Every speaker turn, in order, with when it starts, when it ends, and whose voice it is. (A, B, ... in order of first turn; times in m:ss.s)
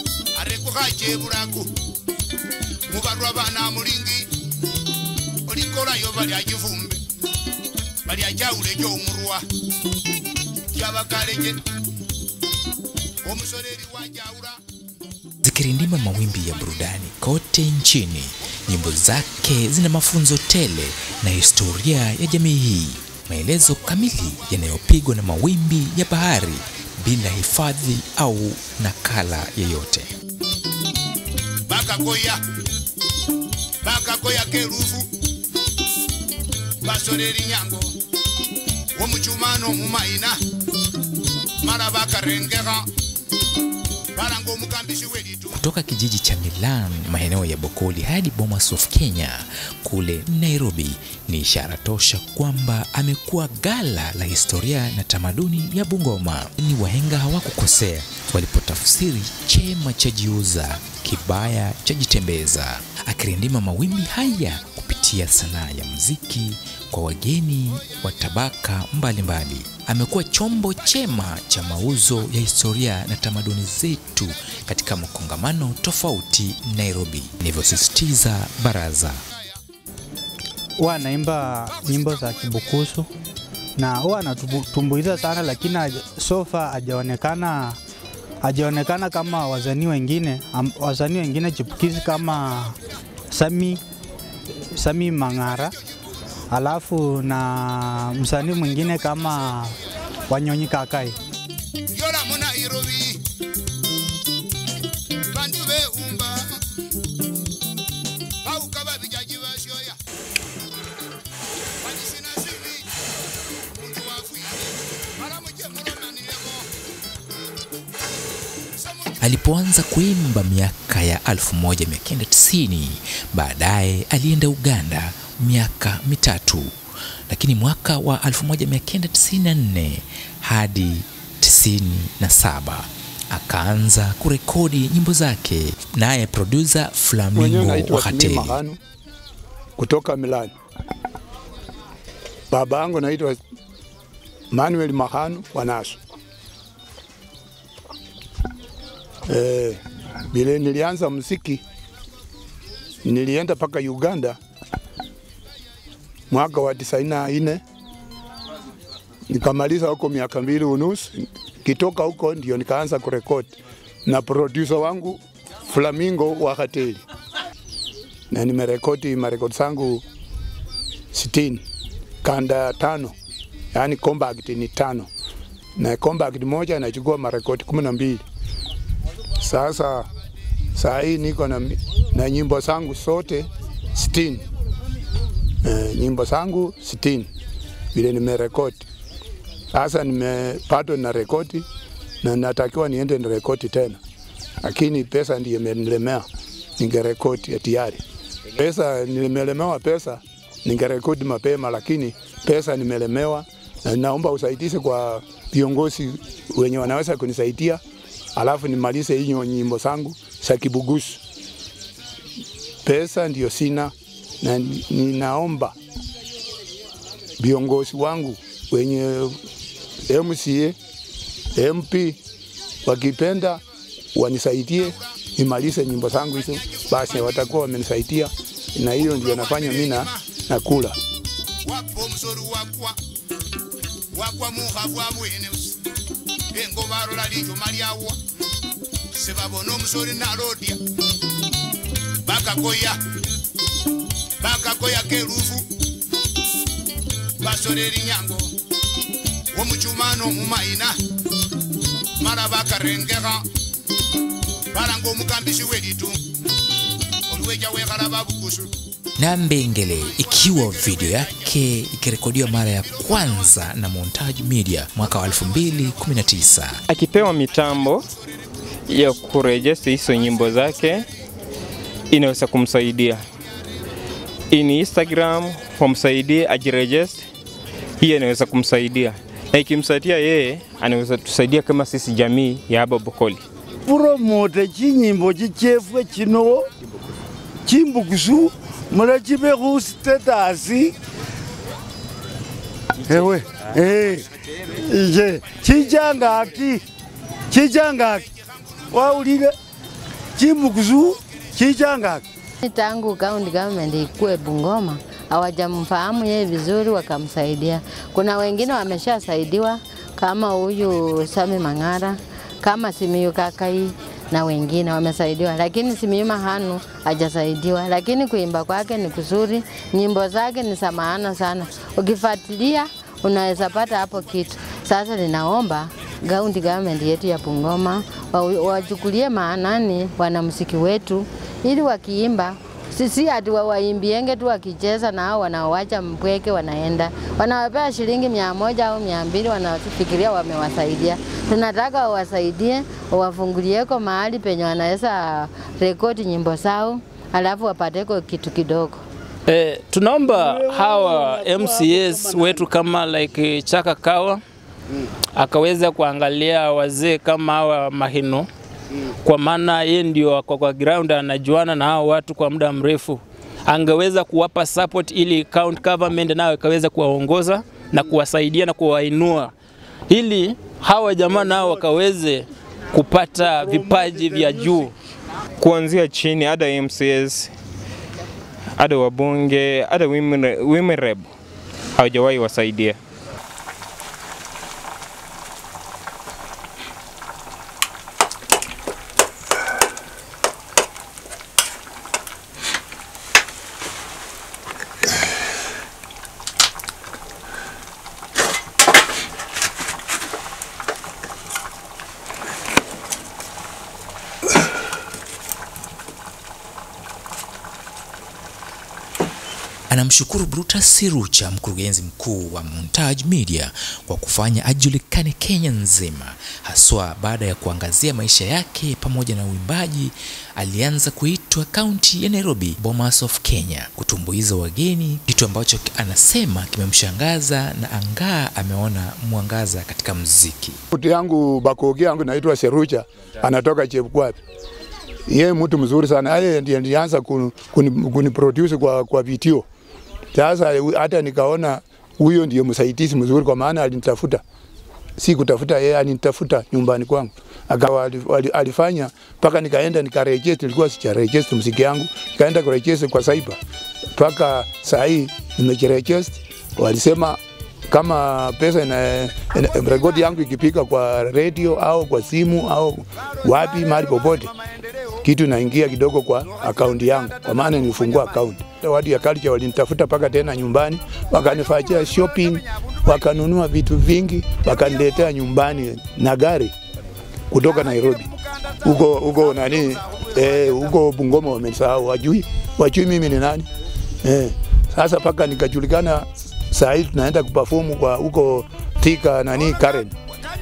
0:00.3-0:01.7 A
0:02.9-0:04.3 A
0:05.4-0:07.0 A
0:08.0-0:09.4 A
0:10.7-0:11.6 A
0:13.2-0:14.6 A
0:15.4-0:30.1 B
0:31.7-0:32.4 A
0:33.8-0:35.1 A
0:36.8-0:37.9 A
0:39.0-0:40.4 A
0:41.6-0:42.9 A
0:44.1-0:45.6 A
0:45.5-1:19.2 B
1:20.8-1:23.1 C
1:23.8-1:27.8 C
1:28.4-1:32.8 C
1:33.3-1:33.8 C
1:34.8-1:35.7 C
1:36.5-1:39.8 C
1:40.3-1:41.2 C
1:41.9-1:43.2 A
1:45.3-1:46.6 A
1:48.4-1:50.0 A
1:51.8-1:52.9 A
1:53.7-1:56.7 A
1:59.2-2:06.7 B
2:07.3-2:18.6 B
2:17.4-2:18.8 D
2:19.8-2:20.5 D
2:22.5-2:23.4 D
2:24.5-2:26.0 D
2:29.3-2:31.6 D
2:33.0-2:34.4 D
2:36.3-2:37.6 D
2:39.3-2:47.0 D
2:48.3-2:50.0 D
2:51.1-2:51.6 D
2:52.2-2:53.1 D
2:53.7-2:55.1 D
2:55.8-2:58.2 D
2:59.4-3:00.1 D
3:00.7-3:04.4 D
3:05.6-3:07.3 D
3:07.9-3:08.9 D
3:09.7-3:11.6 D
3:12.2-3:14.0 D
3:14.6-3:16.2 D
3:16.8-3:18.0 D
3:18.5-3:27.8 D
3:28.4-3:31.2 D
3:32.8-3:35.7 D
3:37.4-3:39.4 D
3:40.1-3:40.8 D
3:41.5-3:42.2 D
3:42.8-3:43.6 D
3:44.1-3:51.0 D
3:49.0-3:50.2 A
3:51.6-3:53.0 A
3:54.1-3:55.8 A
3:56.5-3:58.2 A
3:59.1-4:00.8 A
4:02.2-4:03.0 A
4:04.4-4:05.7 A
4:07.4-4:08.5 A
4:09.5-4:10.9 A
4:12.2-4:13.4 A
4:14.7-4:16.2 A
4:17.3-4:18.7 A
4:19.2-4:26.8 B
4:20.5-4:21.1 A
4:26.9-4:28.1 E
4:28.9-4:31.0 E
4:32.1-4:33.2 E
4:34.5-4:37.2 E
4:38.0-4:43.4 E
4:43.8-4:46.6 F
4:47.6-4:51.0 F
4:53.0-4:56.8 F
4:57.5-4:58.3 F
4:58.9-4:59.5 F
5:00.4-5:02.2 F
5:02.6-5:49.0 G
5:49.5-5:54.4 H
5:50.4-5:52.5 F
5:55.4-5:58.5 H
5:59.2-6:09.5 H
6:10.1-6:14.9 H
6:15.6-6:17.5 E
6:18.8-6:21.3 E
6:22.0-6:23.0 E
6:49.9-7:10.8 B
7:10.9-7:14.4 D
7:15.3-7:19.6 D
7:20.3-7:24.4 D
7:25.2-7:33.6 D
7:34.1-7:44.5 D
7:45.2-7:56.7 D
7:57.5-7:58.3 D
7:58.8-8:03.7 D
8:04.2-8:10.1 D